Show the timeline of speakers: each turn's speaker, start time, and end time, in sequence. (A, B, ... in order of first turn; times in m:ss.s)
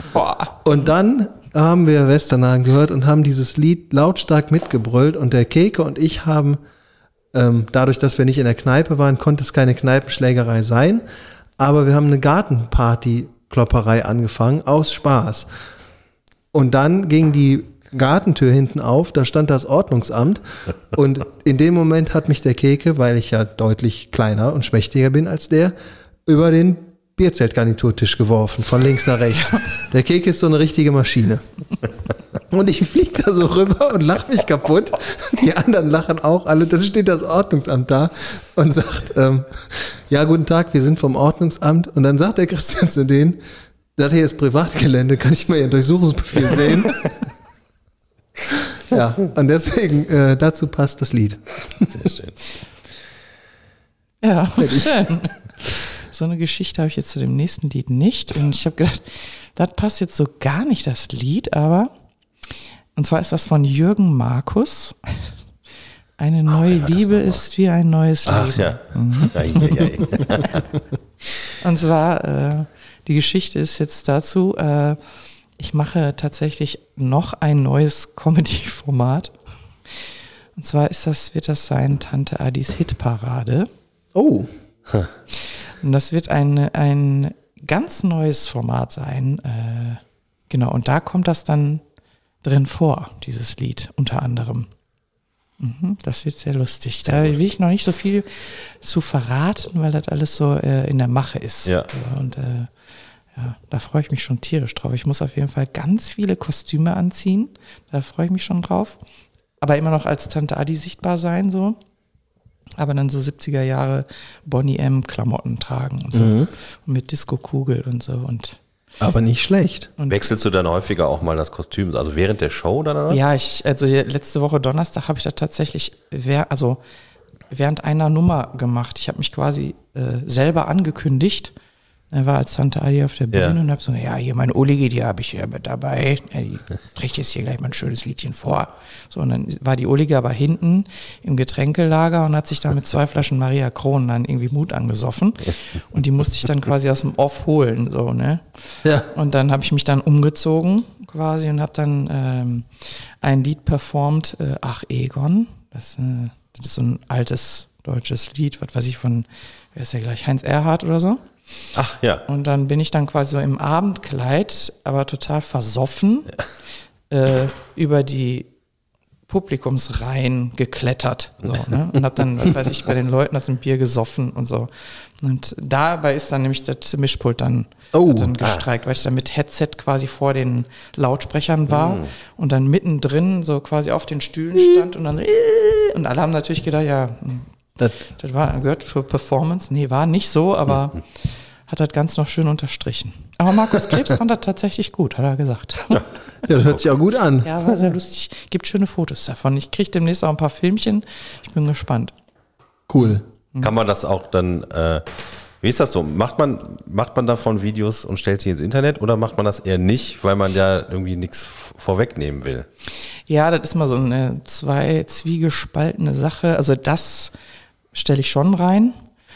0:00.1-0:00.6 A
0:00.6-0:06.6 B
0:07.3-0:11.0 B
0:11.6-0:15.5 B
0:16.5-0:20.4 B
0:20.9-0:25.7 B
0:26.2-0:31.4 B
0:32.5-0:43.4 B
0:44.0-0:47.1 B
0:48.5-0:52.0 B
0:51.9-0:52.4 C
0:54.2-1:01.9 A
0:54.6-0:55.0 B
1:03.0-1:05.3 A
1:06.2-1:09.9 A
1:06.5-1:07.4 C
1:08.2-1:10.7 C
1:11.6-1:15.0 A
1:15.6-1:19.3 A
1:19.9-1:23.7 A
1:24.1-1:24.5 B
1:25.5-1:31.8 A
1:32.4-1:34.7 A
1:35.6-1:42.7 A
1:37.0-1:37.3 C
1:43.3-1:49.0 A
1:49.6-1:51.8 A
1:52.8-1:58.6 A
1:56.1-1:56.5 B
1:59.0-1:59.9 B
2:00.1-2:03.2 C
2:03.1-2:06.8 A
2:07.5-2:11.5 A
2:12.1-2:28.4 A
2:13.3-2:13.6 C
2:29.1-2:41.2 A
2:41.7-2:42.2 C
2:42.3-2:46.4 A
2:47.1-2:48.5 A
2:49.3-3:07.5 A
2:57.9-2:58.3 B
2:58.4-2:58.6 C
3:01.7-3:02.1 C
3:07.8-3:08.0 B
3:08.1-3:16.0 A
3:16.4-3:17.5 B
3:17.4-3:22.1 A
3:22.9-3:23.2 B
3:23.0-3:23.7 A
3:23.6-3:25.0 C
3:25.6-3:32.7 C
3:33.3-3:37.3 A
3:37.9-3:39.0 A